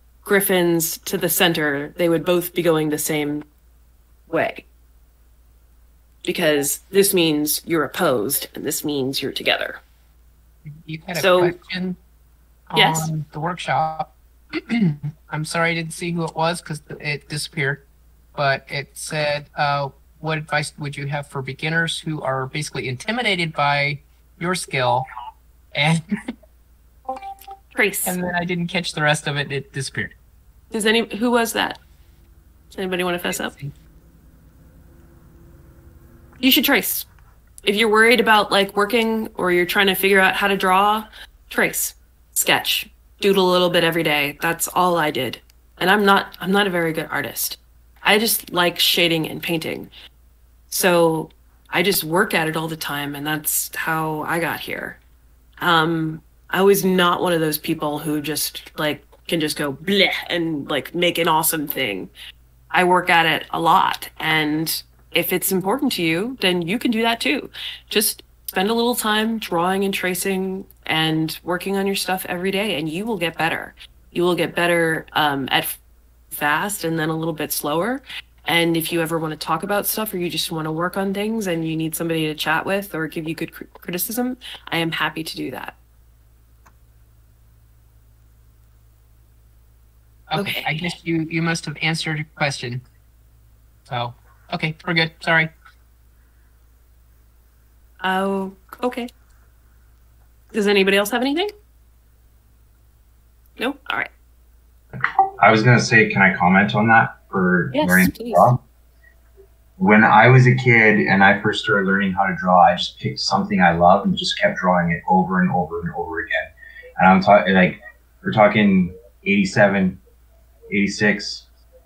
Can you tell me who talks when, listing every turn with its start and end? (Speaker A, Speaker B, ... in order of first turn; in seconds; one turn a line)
Speaker A: 0.2-3.5
Speaker A: 4.3-4.7
Speaker A: 6.2-9.8
Speaker B: 10.7-12.0
Speaker A: 11.2-11.6
Speaker B: 12.7-14.1
Speaker A: 12.8-13.1
Speaker B: 14.7-25.1
Speaker B: 25.7-26.0
Speaker A: 27.7-28.2
Speaker B: 28.1-30.1
Speaker A: 30.7-31.8
Speaker A: 32.7-33.5
Speaker B: 33.3-33.7
Speaker A: 36.4-37.1
Speaker A: 37.6-49.9
Speaker A: 50.7-55.0
Speaker A: 55.6-62.1
Speaker A: 62.7-75.8
Speaker A: 76.3-85.8
Speaker B: 90.3-92.8
Speaker A: 90.3-90.7
Speaker B: 93.9-95.5
Speaker A: 98.0-99.1
Speaker A: 100.5-101.5
Speaker A: 103.6-104.1
Speaker C: 105.0-108.6
Speaker A: 107.7-108.5
Speaker C: 109.8-120.0
Speaker C: 120.7-121.5